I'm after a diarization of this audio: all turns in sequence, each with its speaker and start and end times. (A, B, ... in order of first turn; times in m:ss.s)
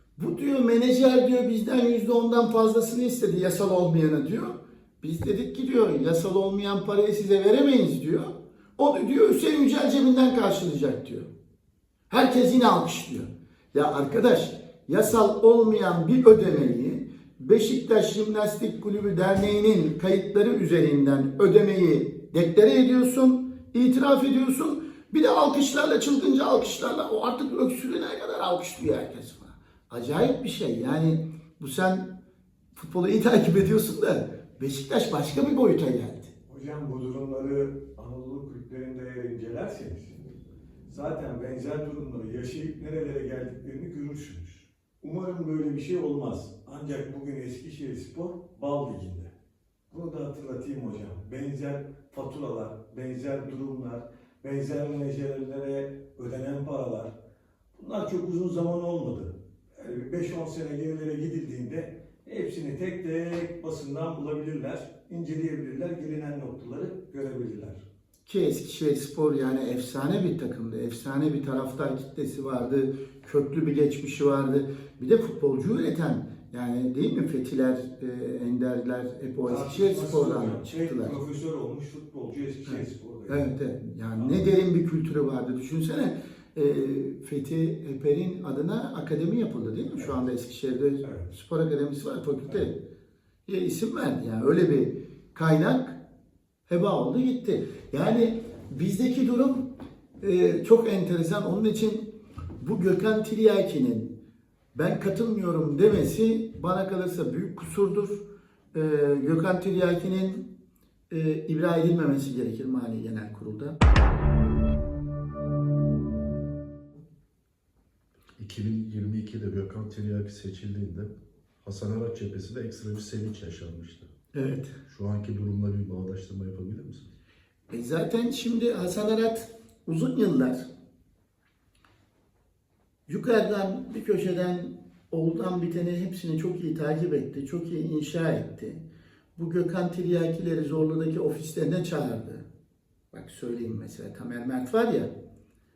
0:00.2-0:11.3 A
0:12.1-0:32.1 A
0:32.8-0:36.3 A
0:36.5-0:40.2 B
0:40.9-0:49.3 B
0:49.9-0:57.1 B
0:57.8-1:07.8 B
1:08.2-1:21.2 A
1:19.5-1:23.5 B
1:22.7-1:32.8 A
1:31.0-1:31.3 B
1:33.5-1:36.0 A
1:36.7-1:44.2 A
1:44.7-1:50.5 A
1:51.1-1:53.8 A
1:58.4-2:04.1 C
2:04.3-2:04.8 A
2:04.9-2:07.1 C
2:07.7-2:10.7 A
2:13.1-2:18.8 A
2:19.4-2:22.5 A
2:23.1-2:25.1 A